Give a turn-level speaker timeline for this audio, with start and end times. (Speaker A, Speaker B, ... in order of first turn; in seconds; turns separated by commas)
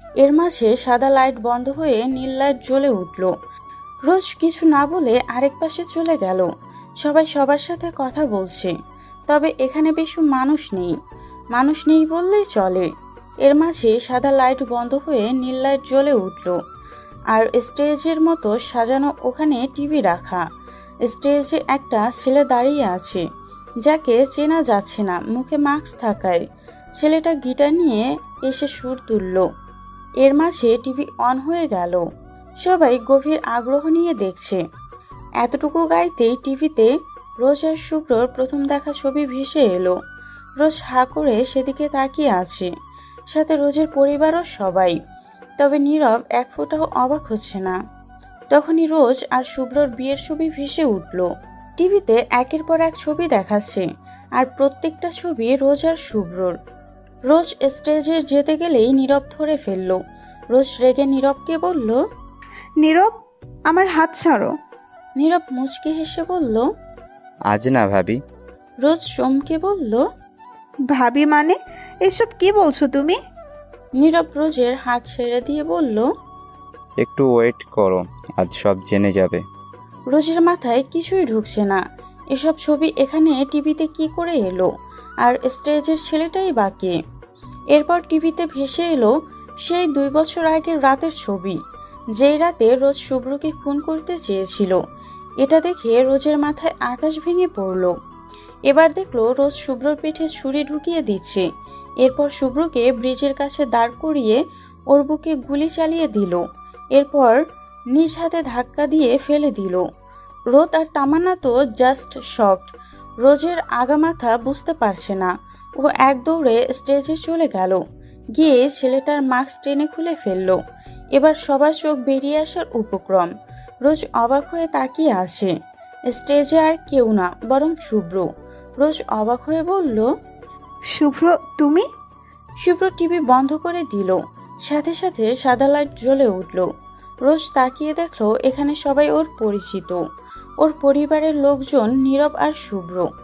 Speaker A: 0.2-3.3, Speaker A: 4.1-6.5, Speaker A: 7.0-8.7, Speaker A: 9.3-10.9, Speaker A: 11.5-12.9, Speaker A: 13.4-16.6, Speaker A: 17.3-20.4, Speaker A: 21.1-23.2, Speaker A: 23.8-26.4, Speaker A: 27.0-29.5, Speaker A: 30.2-32.0, Speaker A: 32.6-34.6, Speaker A: 35.4-36.9, Speaker A: 37.4-39.9, Speaker A: 40.6-42.7, Speaker A: 43.3-45.0, Speaker A: 45.6-47.8, Speaker A: 48.5-53.8, Speaker A: 54.4-56.5, Speaker A: 57.3-60.0, Speaker A: 60.5-62.0, Speaker B: 62.8-63.1, Speaker B: 63.7-64.5, Speaker A: 65.2-66.7, Speaker C: 67.5-68.2, Speaker A: 68.8-70.0, Speaker B: 70.9-73.2, Speaker A: 74.0-76.0, Speaker C: 77.0-79.4, Speaker A: 80.1-81.8, Speaker A: 82.3-84.7, Speaker A: 85.2-87.0, Speaker A: 87.7-89.1, Speaker A: 89.6-91.6, Speaker A: 92.2-94.8, Speaker A: 95.4-97.9, Speaker A: 98.7-101.4, Speaker A: 102.0-104.4, Speaker A: 104.9-106.4, Speaker A: 106.9-107.4, Speaker A: 107.9-109.8, Speaker A: 110.5-117.8, Speaker A: 118.3-120.6, Speaker A: 121.1-123.3, Speaker A: 123.8-125.5, Speaker A: 126.1-128.3, Speaker A: 128.8-130.1, Speaker B: 130.9-131.8, Speaker A: 132.6-136.7, Speaker A: 137.2-140.0, Speaker A: 140.6-143.1